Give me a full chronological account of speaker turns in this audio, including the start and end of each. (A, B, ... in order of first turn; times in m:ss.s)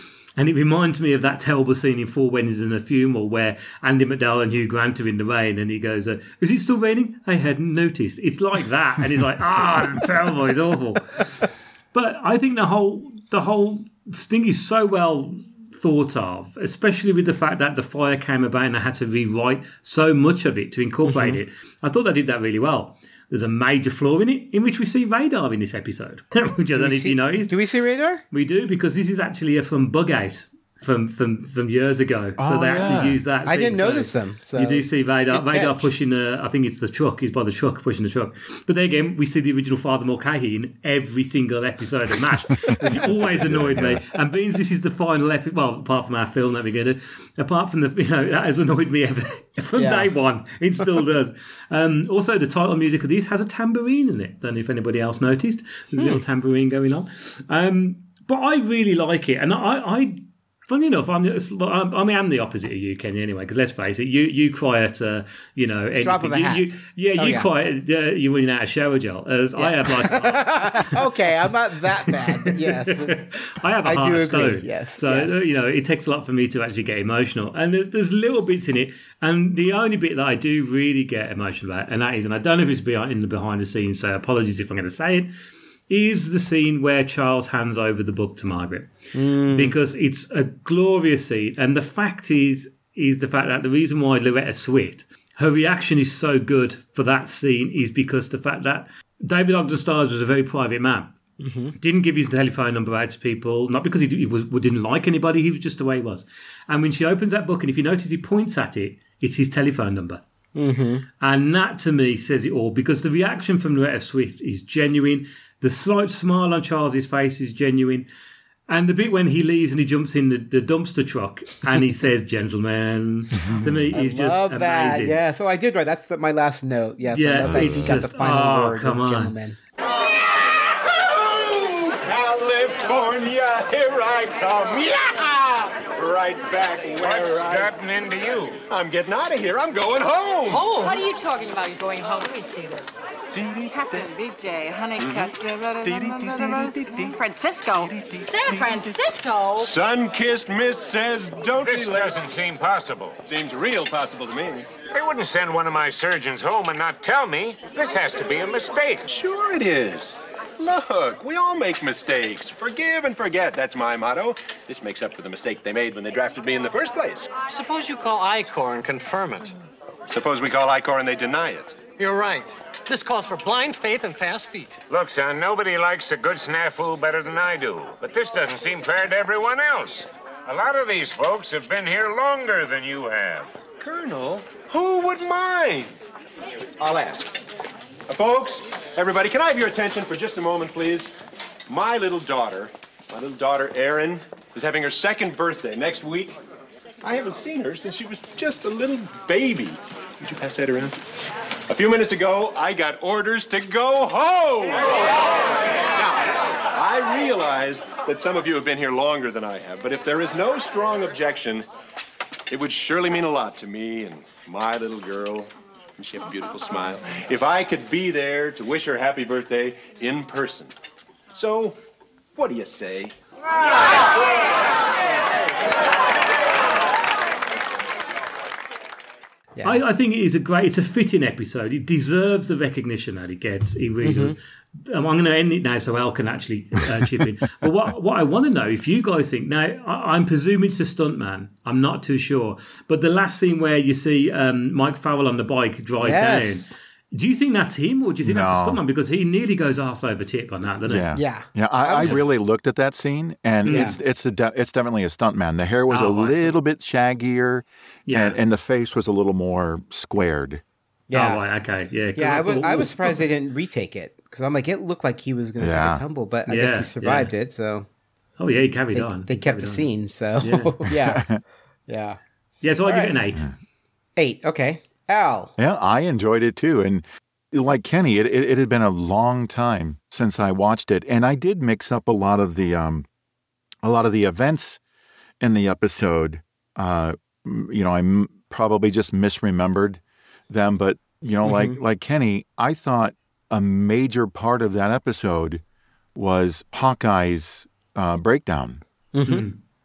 0:00.4-0:27.5 A
0:21.0-0:21.4 B
0:26.8-0:28.2 B
0:28.3-1:11.1 A
0:32.4-0:33.2 C
0:33.4-0:35.9 B
0:43.5-0:44.0 C
0:49.8-0:50.1 B
0:56.0-0:56.2 B
1:06.0-1:07.5 B
1:09.6-1:13.3 B
1:12.1-1:25.3 A
1:13.8-1:15.4 B
1:25.9-1:29.0 A
1:29.1-1:29.8 B
1:29.5-1:41.1 A
1:41.4-1:41.8 B
1:41.8-1:50.2 A
1:50.6-1:51.0 B
1:51.2-1:58.1 A
1:58.7-2:05.2 A
2:03.4-2:03.7 C
2:03.9-2:09.6 B
2:07.1-2:09.4 A
2:07.5-2:08.0 C
2:10.9-2:17.7 D
2:17.0-2:18.6 E
2:18.7-2:20.7 D
2:20.5-2:23.0 F
2:23.3-2:24.1 D
2:23.7-2:29.7 F
2:25.0-2:27.1 D
2:27.9-2:28.9 D
2:29.5-2:32.2 D
2:31.6-2:33.2 E
2:33.2-2:34.7 D
2:34.9-2:39.1 E
2:39.1-2:47.3 D
2:47.5-2:49.5 G
2:50.1-2:51.8 D
2:52.0-2:54.8 G
2:54.9-3:03.6 E
3:03.8-3:05.9 D
3:06.8-3:07.4 D
3:08.1-3:11.1 D
3:11.7-3:16.4 D
3:17.0-3:21.0 D
3:21.7-3:31.7 D
3:32.5-3:40.7 D
3:41.3-3:41.8 D
3:42.4-3:44.4 D
3:49.6-3:49.8 B
3:49.6-4:11.1 A
3:54.0-3:54.4 B
4:06.0-4:06.7 B
4:08.2-4:08.8 C
4:10.9-4:20.6 C
4:11.1-4:12.2 B
4:13.6-4:13.9 A
4:13.7-4:14.0 B
4:15.9-4:16.5 A
4:18.1-4:18.4 A
4:21.1-4:21.4 B
4:21.1-4:23.2 A
4:22.2-4:27.9 B
4:25.6-4:26.0 C
4:26.5-4:27.3 A
4:28.4-4:29.9 A
4:28.9-4:31.3 B
4:30.4-4:30.8 A
4:30.9-4:31.4 C
4:31.9-4:32.2 B
4:32.6-4:33.5 A
4:32.8-4:33.2 B
4:34.2-4:35.5 B
4:35.6-4:43.1 C
4:43.8-4:44.8 C
4:45.4-4:55.6 C
4:51.4-4:51.8 B
4:56.2-4:58.8 C
4:59.1-4:59.5 B
4:59.3-4:59.6 A